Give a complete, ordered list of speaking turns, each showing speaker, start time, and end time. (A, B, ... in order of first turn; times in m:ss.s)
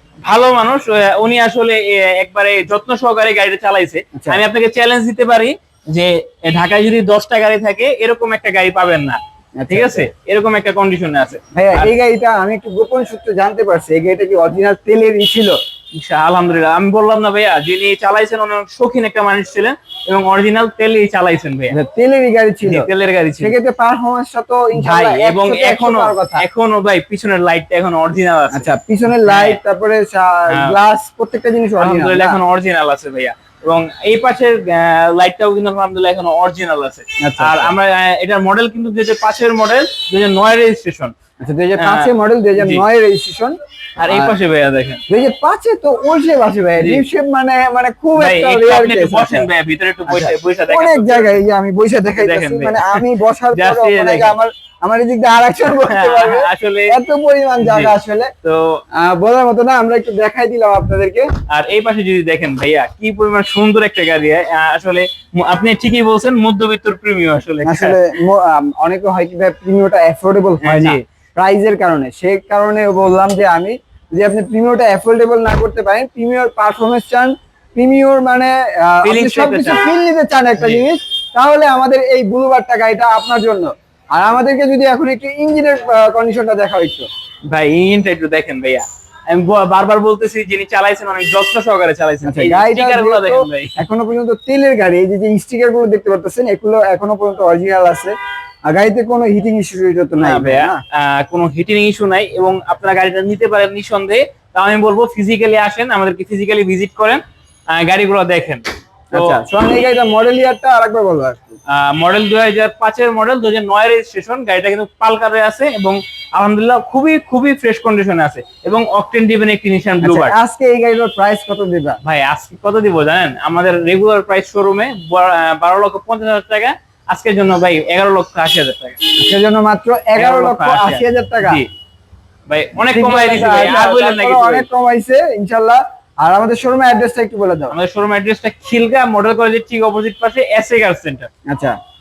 0:00.2-0:09.2 A
0:09.6-0:10.1 B
0:09.7-0:11.9 A
0:11.5-0:15.5 B
0:16.0-0:21.7 A
0:21.7-0:22.9 B
0:22.6-0:23.5 A
0:23.4-0:26.4 B
0:24.8-0:28.7 A
0:28.5-0:32.4 B
0:29.2-0:29.6 A
0:31.8-0:41.1 A
0:37.2-0:37.7 B
0:41.4-0:43.6 B
0:41.8-0:42.8 A
0:44.0-0:45.0 A
0:45.1-0:49.4 B
0:46.8-0:47.0 A
0:48.2-0:51.3 A
0:50.1-0:58.3 B
0:52.2-0:54.3 A
0:55.8-0:57.0 A
0:57.6-0:57.9 A
0:58.4-0:58.8 A
0:59.0-1:01.3 B
1:01.5-1:08.0 A
1:07.6-1:27.0 B
1:10.6-1:11.0 A
1:19.0-1:19.8 A
1:20.6-1:20.8 A
1:27.5-1:33.7 A
1:32.2-1:38.1 B
1:38.7-1:40.8 B
1:40.2-1:49.4 A
1:49.1-1:51.6 B
1:51.7-2:00.3 A
2:00.0-2:02.0 B
2:02.0-2:09.0 A
2:09.2-2:11.6 B
2:10.2-2:11.7 A
2:12.5-2:14.6 A
2:12.8-2:17.7 B
2:17.7-2:21.3 A
2:21.5-2:21.8 B